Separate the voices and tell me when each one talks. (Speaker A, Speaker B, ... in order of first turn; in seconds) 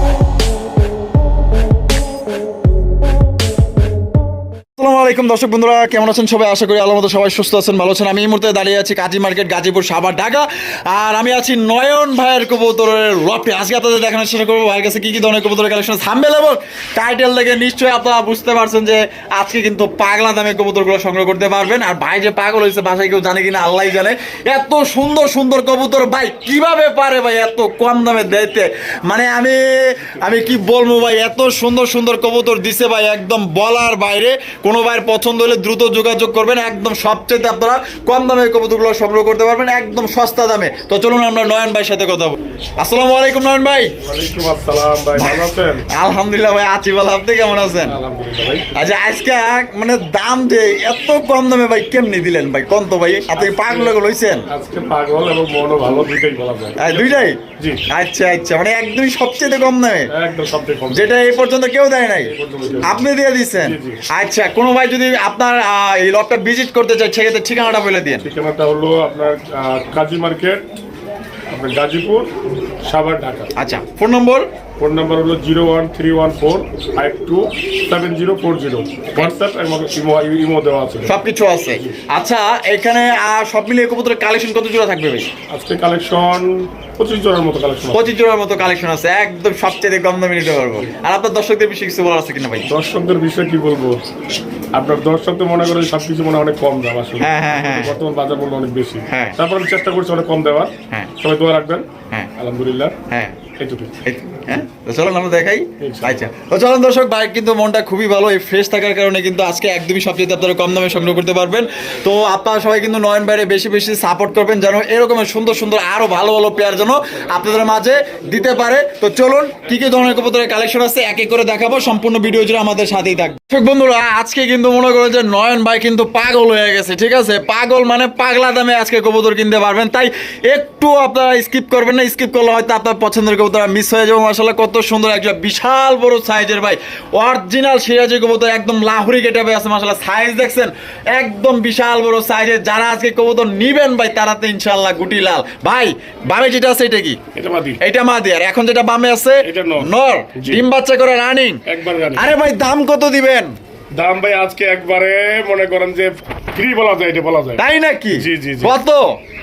Speaker A: 4.8-43.9, 45.1-47.9, 48.7-54.5, 56.8-60.1, 60.9-62.3, 62.8-68.2, 73.5-74.5, 81.0-85.3, 87.9-92.7, 97.2-98.0, 99.1-99.3, 103.1-103.3, 104.0-147.2, 147.8-151.6, 152.2-153.5, 157.6-159.2
Speaker B: 30.1-31.2, 44.0-45.9, 47.8-48.7, 53.3-54.0, 54.5-57.8, 60.1-61.1, 62.2-63.0, 63.6-64.0, 68.2-70.6, 71.5-72.3, 72.8-73.5, 74.8-81.2, 85.5-88.1, 92.7-94.0, 94.7-103.0, 103.6-104.0, 105.8-106.3, 147.3-147.8, 149.4-150.6, 151.7-152.3, 154.0-158.8